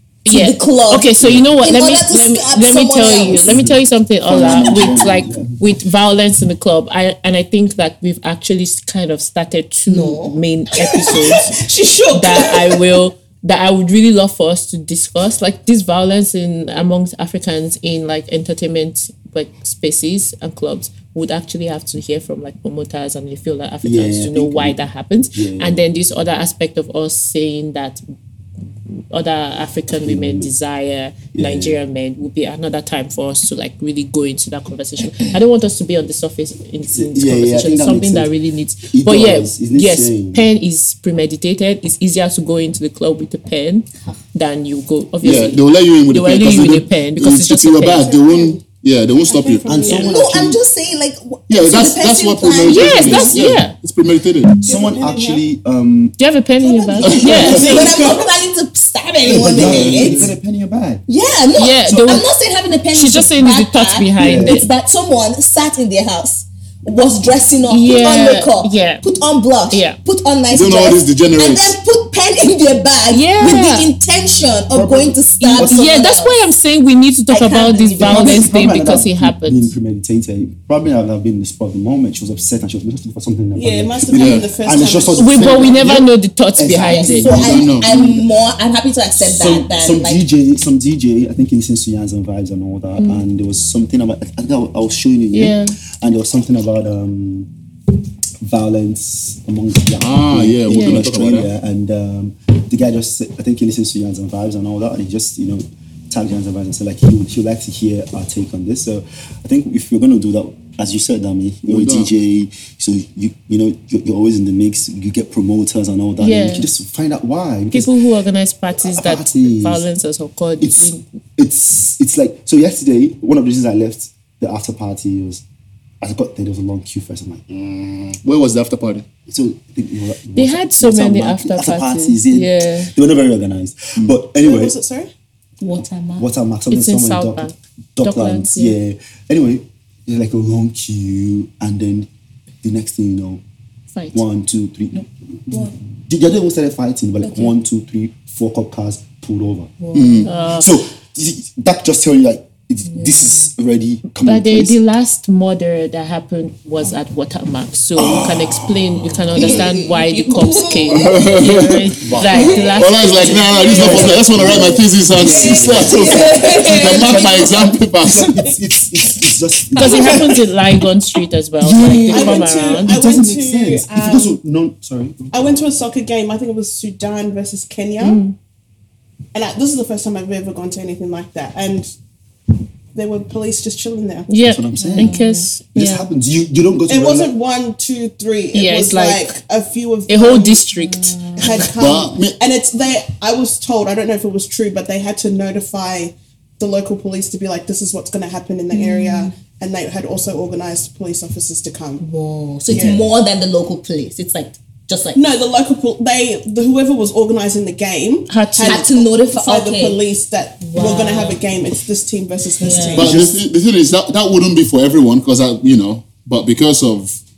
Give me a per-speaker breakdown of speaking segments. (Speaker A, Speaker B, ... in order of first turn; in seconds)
Speaker A: 0.3-3.6, 9.9-10.4, 49.9-53.5, 56.6-60.3, 61.1-76.4, 77.3-78.5, 86.8-90.2, 135.6-136.3, 144.9-145.8, 147.2-147.5, 149.8-150.4, 152.9-153.5, 159.4-161.4, 162.2-164.2, 165.4-167.7, 169.8-170.2, 184.8-185.5, 190.7-191.7, 198.7-199.3, 202.0-205.3, 208.6-210.0, 210.6-211.4, 212.6-213.2
Speaker B: 0.3-11.6, 12.1-28.0, 29.1-48.1, 52.6-53.7, 56.2-57.8, 61.5-62.3, 62.9-64.7, 67.7-69.0, 69.7-70.0, 73.1-73.9, 75.4-79.7, 85.2-87.4, 95.3-95.8, 100.7-101.0, 116.2-116.7, 117.7-121.0, 130.4-132.9, 136.7-138.8, 143.9-144.2, 150.3-150.7, 154.2-163.4, 169.8-173.0, 178.0-178.3, 184.3-186.1, 188.5-189.4, 190.1-191.2, 208.3-208.8
Speaker C: 4.2-5.5, 23.8-25.8, 29.9-30.5, 31.3-31.8, 36.9-38.3, 38.9-40.5, 49.6-50.6, 54.6-56.2, 57.3-57.9, 59.2-61.0, 64.2-64.6, 74.7-76.0, 78.0-88.4, 89.2-97.5, 98.4-117.9, 118.8-119.9, 120.6-125.4, 126.0-128.2, 129.3-134.8, 136.2-142.1, 142.6-143.4, 144.1-149.8, 150.4-154.8, 158.0-159.7, 162.0-170.4, 171.6-175.6, 184.4-185.2, 185.7-187.3, 213.1-213.3
Speaker D: 10.8-12.8, 47.9-48.6, 49.3-50.1, 54.6-55.5, 57.2-58.3, 83.5-85.8, 134.3-135.1, 163.5-164.0, 165.2-167.1, 172.1-174.4, 175.3-178.2, 179.3-181.9, 182.9-184.3, 186.9-190.7, 191.4-202.1, 202.7-203.1, 205.2-213.3
Speaker E: 45.2-49.9, 51.5-54.6, 59.5-60.3, 70.5-71.8, 84.1-84.5, 87.2-87.9, 100.0-101.5, 111.7-112.1, 128.2-129.1, 149.9-150.3, 161.0-161.9, 162.7-168.5, 191.8-192.4, 212.9-217.2